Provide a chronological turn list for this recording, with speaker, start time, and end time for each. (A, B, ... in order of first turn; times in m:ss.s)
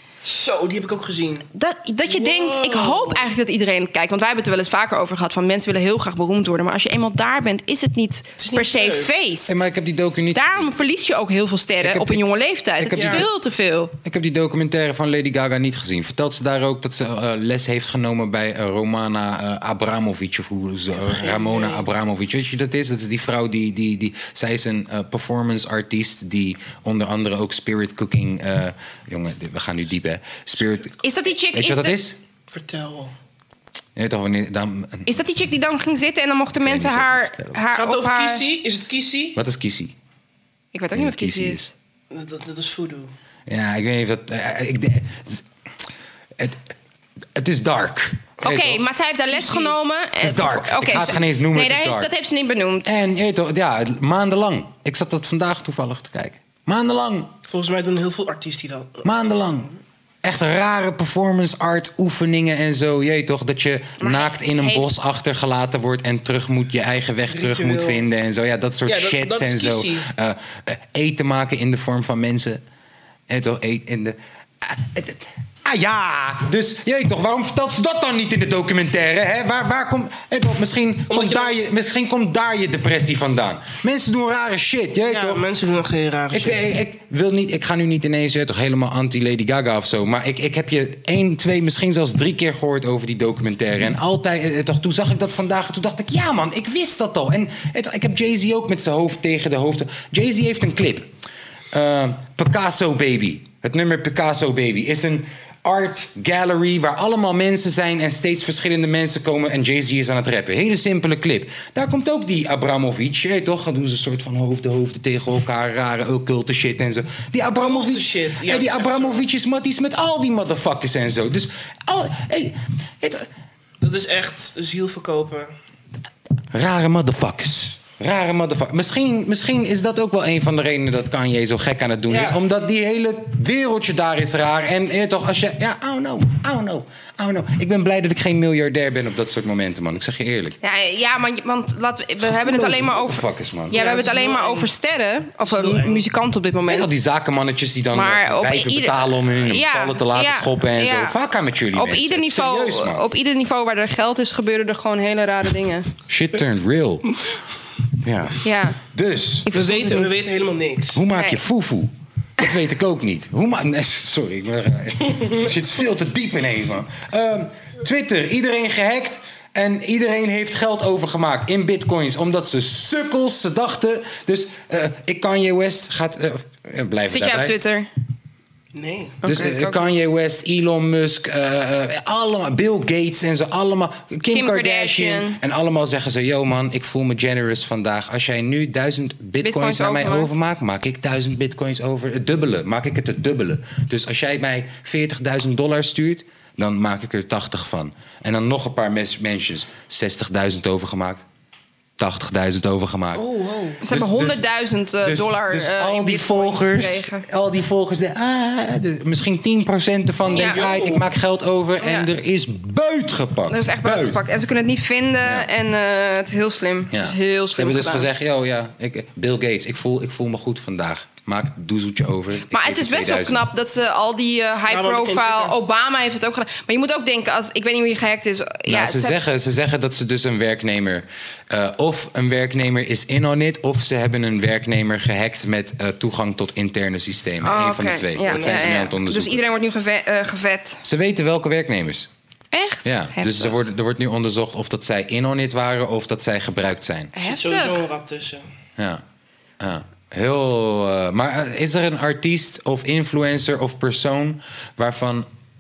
0:00.2-0:01.5 A
0:01.5-0:09.6 B
0:02.1-0:03.3 A
0:08.4-0:09.1 A
0:09.5-0:10.7 C
0:10.3-0:13.9 B
0:11.8-0:12.2 C
0:12.8-0:13.3 C
0:12.9-0:13.2 A
0:14.0-0:31.0 C
0:21.1-0:21.8 A
0:31.0-0:32.0 B
0:31.5-0:32.2 C
0:32.5-0:33.1 A
0:34.0-0:35.1 C
0:35.1-0:38.4 B
0:36.6-0:37.6 C
0:37.7-0:39.4 A
0:39.4-0:39.9 C
0:40.7-0:41.7 B
0:40.9-0:41.7 C
0:42.1-0:43.1 A
0:43.5-0:45.4 C
0:46.4-0:46.7 C
0:47.4-0:48.8 C
0:48.4-0:52.9 B
0:49.3-0:49.8 A
0:50.2-0:52.1 C
0:52.8-0:57.3 C
0:57.5-0:59.6 A
0:59.0-0:59.7 C
1:00.2-1:12.6 C
1:04.0-1:04.9 B
1:07.3-1:08.0 A
1:08.9-1:10.1 A
1:13.3-1:25.4 C
1:21.1-1:21.6 A
1:25.0-1:26.7 A
1:26.3-1:41.1 C
1:41.7-2:03.3 C
1:57.6-1:59.2 A
2:03.8-2:05.5 A
2:06.5-2:20.6 C
2:12.1-2:12.4 A
2:20.6-2:26.9 B
2:22.2-2:23.8 C
2:23.7-2:24.7 A
2:25.4-2:26.0 A
2:26.7-2:33.1 C
2:27.9-2:31.2 B
2:31.7-2:35.9 B
2:36.1-2:37.1 C
2:38.0-2:39.5 C
2:38.4-2:38.8 B
2:39.5-2:40.1 B
2:39.5-2:41.0 A
2:40.9-2:57.6 C
2:41.1-2:41.4 B
2:57.1-2:57.9 B
2:58.7-2:59.2 A
2:59.2-2:59.8 B
2:59.2-3:21.2 C
3:04.3-3:05.4 B
3:09.4-3:10.3 B
3:22.0-3:23.2 C
3:23.1-3:23.8 A
3:23.8-3:27.2 B
3:23.9-3:24.4 C
3:25.0-3:34.2 C
3:30.2-3:31.1 A
3:30.4-3:30.6 B
3:31.8-3:32.1 B
3:33.5-3:38.1 B
3:36.9-3:43.5 C
3:42.5-3:49.2 B
3:44.7-3:45.6 A
3:48.7-3:59.4 C
3:57.4-4:00.8 B
3:58.3-3:58.8 A
4:00.8-4:02.1 C
4:02.5-4:03.6 B
4:02.8-4:07.1 C
4:07.2-4:07.8 B
4:07.2-4:08.4 A
4:08.8-4:09.0 C
4:09.6-4:15.3 C